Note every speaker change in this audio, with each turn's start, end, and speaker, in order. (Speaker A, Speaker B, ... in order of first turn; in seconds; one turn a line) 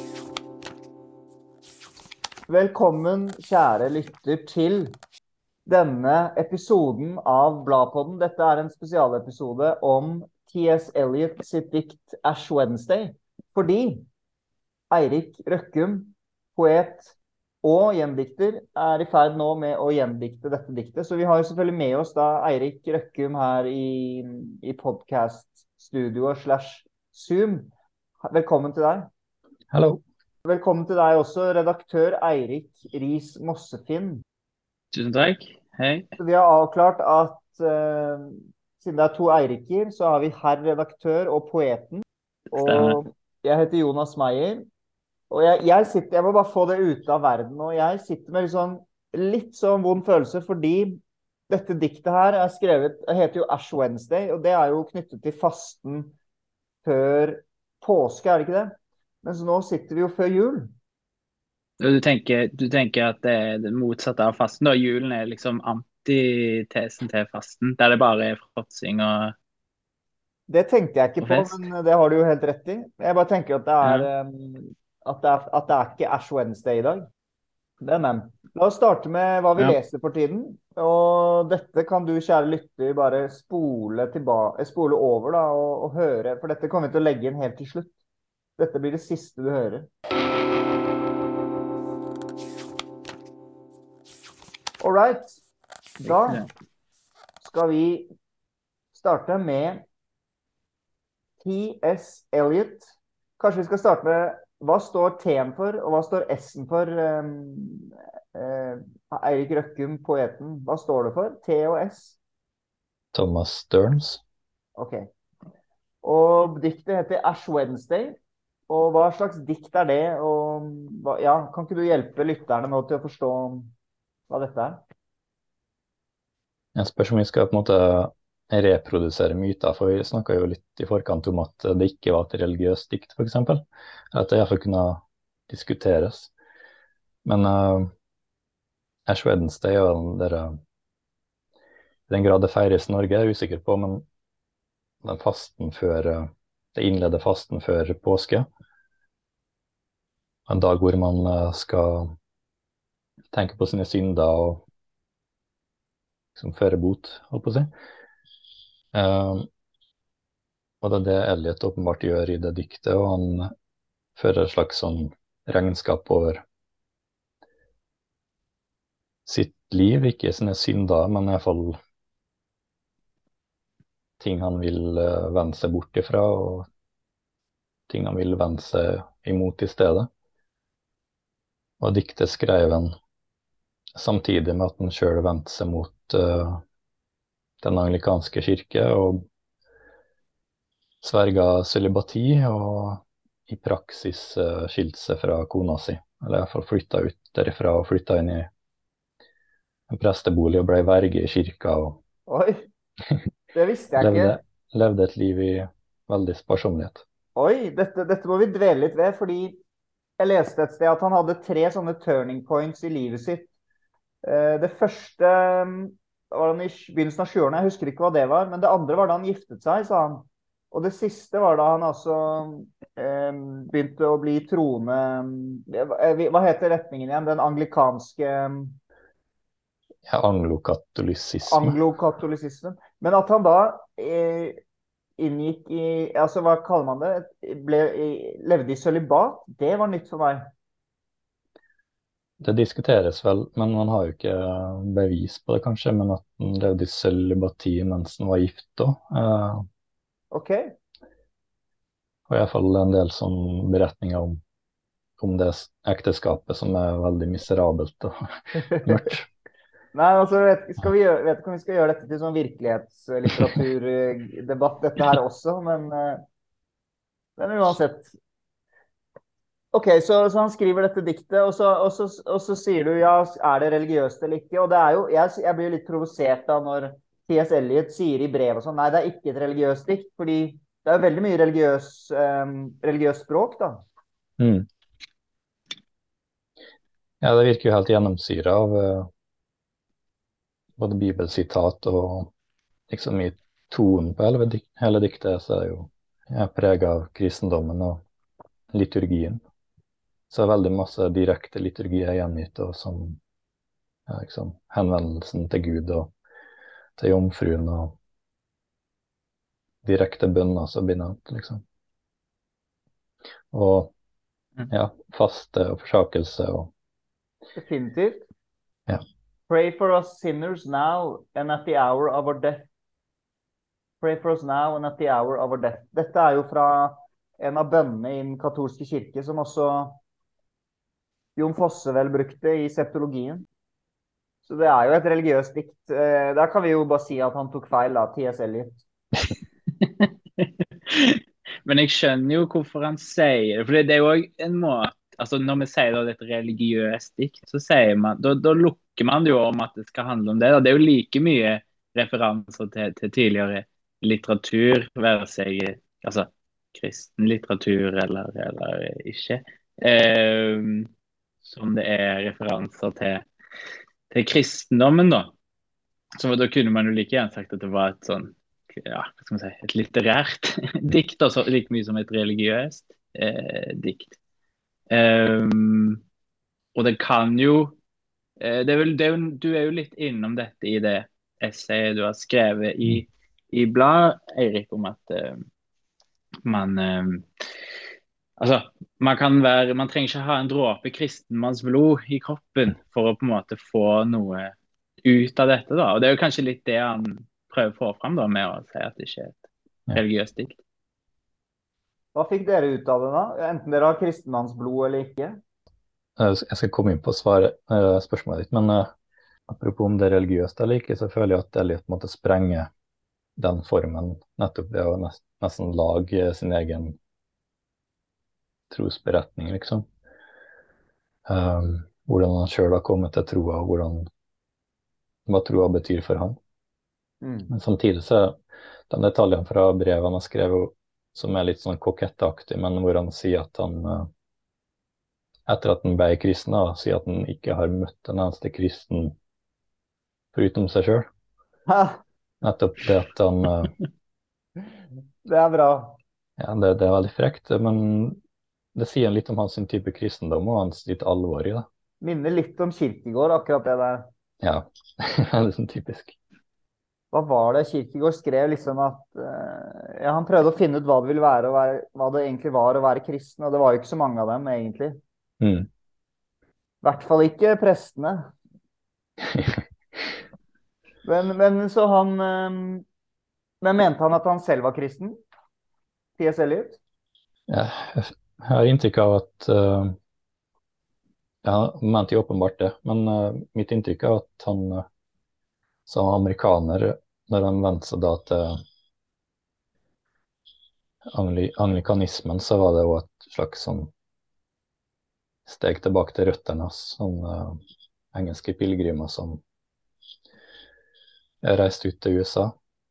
Speaker A: 2.5-5.0
Speaker A: 5.7-14.1
Speaker A: 14.9-27.7
Speaker A: 28.2-29.1
Speaker B: 29.7-30.0
Speaker A: 30.4-34.2
Speaker C: 34.9-36.1
Speaker A: 36.2-44.7
Speaker C: 42.5-43.0
Speaker A: 45.3-56.1
Speaker A: 56.9-60.7
Speaker C: 61.8-69.3
Speaker A: 70.5-77.0
Speaker C: 71.2-71.6
Speaker C: 73.8-74.1
Speaker A: 77.8-87.9
Speaker A: 88.6-89.9
Speaker A: 94.8-95.4
Speaker A: 96.0-96.5
Speaker C: 96.1-96.5
Speaker A: 97.4-98.1
Speaker A: 98.9-99.8
Speaker A: 101.4-112.2
Speaker B: 113.1-114.2
Speaker A: 114.8-115.1
Speaker A: 116.0-118.2
Speaker A: 118.7-123.7
Speaker A: 124.3-124.8
Speaker B: 126.8-136.3
Speaker B: 137.2-137.9
Speaker B: 139.1-140.6
Speaker B: 142.1-144.1
Speaker B: 145.0-148.5
Speaker B: 150.5-152.2
Speaker B: 153.3-154.6
Speaker B: 156.4-157.7
Speaker B: 158.9-159.5
Speaker B: 160.8-163.5
Speaker B: 164.2-166.4
Speaker B: 169.3-171.8
Speaker B: 174.2-176.7
Speaker B: 177.9-180.1
Speaker B: 181.8-182.9
Speaker B: 184.0-186.6
Speaker B: 187.6-189.2
Speaker B: 191.0-198.5
Speaker B: 199.9-202.0
Speaker A: 202.3-202.7
Speaker A: 203.5-204.4
Speaker B: 204.0-207.0
Speaker A: 207.4-209.6
Speaker A: 210.2-213.5
Speaker A: 214.2-228.8
Speaker B: 230.1-231.8
Speaker A: 231.5-234.6
Speaker A: 235.2-240.5
Speaker B: 242.4-249.7
Speaker A: 250.3-250.7
Speaker B: 252.3-254.4
Speaker B: 255.2-258.2
Speaker A: 258.7-259.0
Speaker B: 258.8-259.3
Speaker A: 259.9-266.2
Speaker A: 267.4-268.1
Speaker A: 269.7-283.8
Speaker B: 284.4-284.7
Speaker B: 287.2-289.1
Speaker B: 290.8-292.3
Speaker B: 292.9-298.0
Speaker B: 298.7-299.4
Speaker B: 300.3-303.2
Speaker B: 304.1-306.1
Speaker B: 307.0-308.0
Speaker B: 309.8-311.6
Speaker B: 313.5-313.9
Speaker B: 314.7-316.7
Speaker A: 317.6-318.2
Speaker A: 319.5-322.7
Speaker A: 324.0-330.0
Speaker A: 331.4-333.5
Speaker A: 334.4-338.8
Speaker C: 339.8-360.9
Speaker C: 361.4-363.2
Speaker C: 364.1-365.3
Speaker C: 366.2-374.2
Speaker C: 374.9-376.0
Speaker C: 376.8-377.8
Speaker C: 378.4-385.4
Speaker C: 386.4-387.3
Speaker C: 388.4-400.6
Speaker A: 402.1-405.4
Speaker B: 406.2-408.9
Speaker B: 409.5-412.7
Speaker B: 413.4-417.0
Speaker B: 418.7-419.9
Speaker B: 421.3-424.1
Speaker B: 425.3-426.4
Speaker A: 427.2-427.5
Speaker B: 427.5-428.4
Speaker B: 428.9-434.1
Speaker B: 435.5-439.1
Speaker B: 440.3-441.1
Speaker A: 441.7-442.0
Speaker B: 442.4-443.7
Speaker A: 445.2-446.0
Speaker B: 446.4-448.2
Speaker B: 448.8-451.7
Speaker A: 452.0-454.1
Speaker B: 454.4-456.1
Speaker A: 457.1-465.0
Speaker B: 465.4-465.7
Speaker A: 466.8-468.3
Speaker B: 469.3-469.6
Speaker A: 471.1-472.9
Speaker A: 473.6-475.2
Speaker A: 476.2-476.8
Speaker B: 477.5-480.0
Speaker B: 481.4-484.9
Speaker B: 485.9-488.6
Speaker B: 491.1-493.9
Speaker B: 495.5-497.6
Speaker B: 498.1-499.4
Speaker B: 501.4-502.6